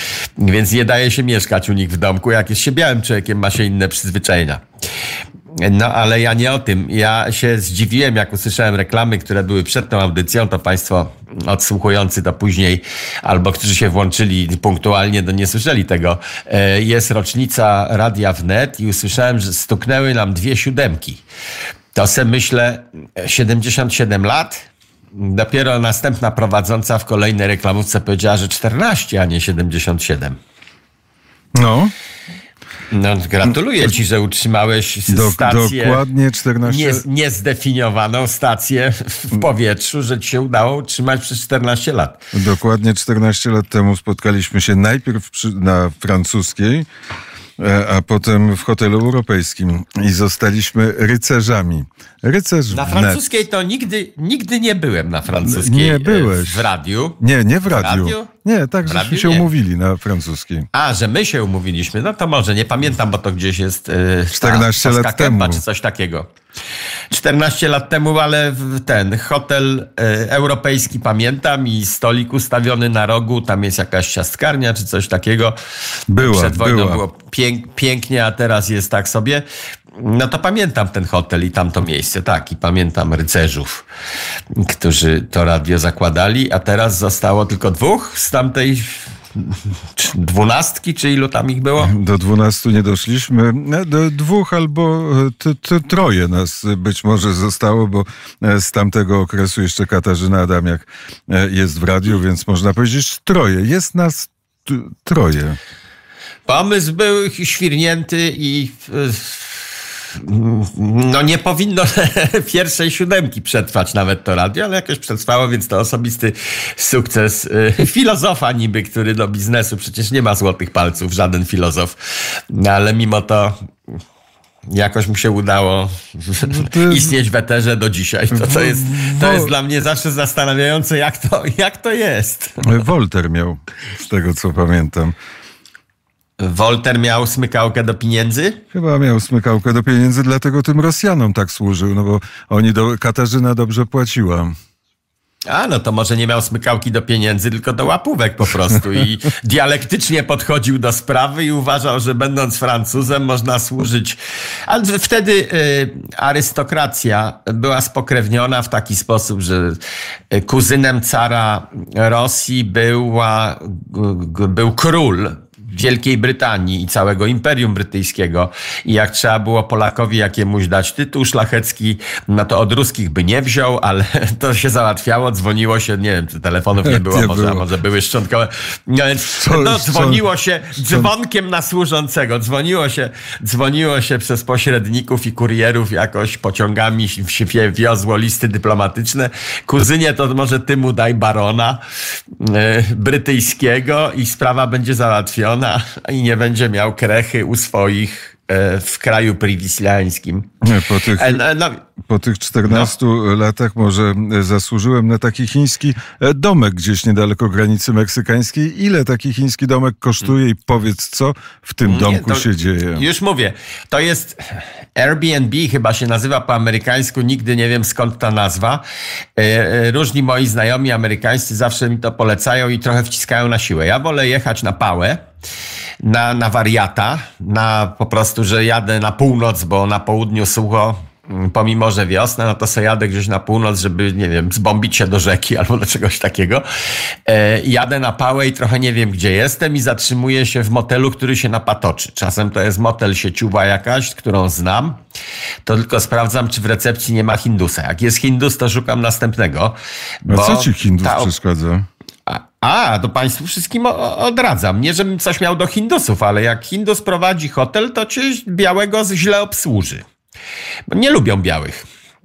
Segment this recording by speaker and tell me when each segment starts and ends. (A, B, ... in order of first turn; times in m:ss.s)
0:00.4-0:04.6 A
0:05.5-0:21.2 A
0:21.9-0:30.4 A
0:31.5-0:31.9 B
0:32.9-0:36.0 A
0:35.1-0:37.0 B
0:36.6-0:42.2 A
0:42.3-0:46.9 B
0:47.6-0:53.2 B
0:52.7-0:57.2 A
0:55.4-1:00.7 B
0:57.7-0:58.3 A
0:58.8-0:59.5 A
1:00.7-1:06.3 A
1:04.3-1:05.6 B
1:07.1-1:15.6 A
1:16.1-1:17.0 B
1:16.2-1:23.8 A
1:24.5-1:31.9 A
1:31.8-1:45.6 B
1:46.5-2:03.6 A
2:04.7-2:12.8 A
2:06.4-2:07.1 B
2:08.3-2:09.5 B
2:12.6-2:15.2 B
2:16.4-2:18.6 A
2:18.7-2:24.6 B
2:25.5-2:39.8 A
2:40.3-3:20.5 A
2:56.8-2:57.6 B
2:59.4-3:00.2 B
3:20.6-3:21.4 B
3:21.1-3:21.8 A
3:22.0-3:33.0 B
3:22.6-3:22.9 A
3:31.8-3:38.8 A
3:39.4-3:45.2 A
3:46.0-3:56.6 A
3:57.2-4:05.0 A
4:05.6-4:11.3 A
4:10.3-4:11.9 B
4:12.3-4:20.0 A
4:20.9-4:21.8 A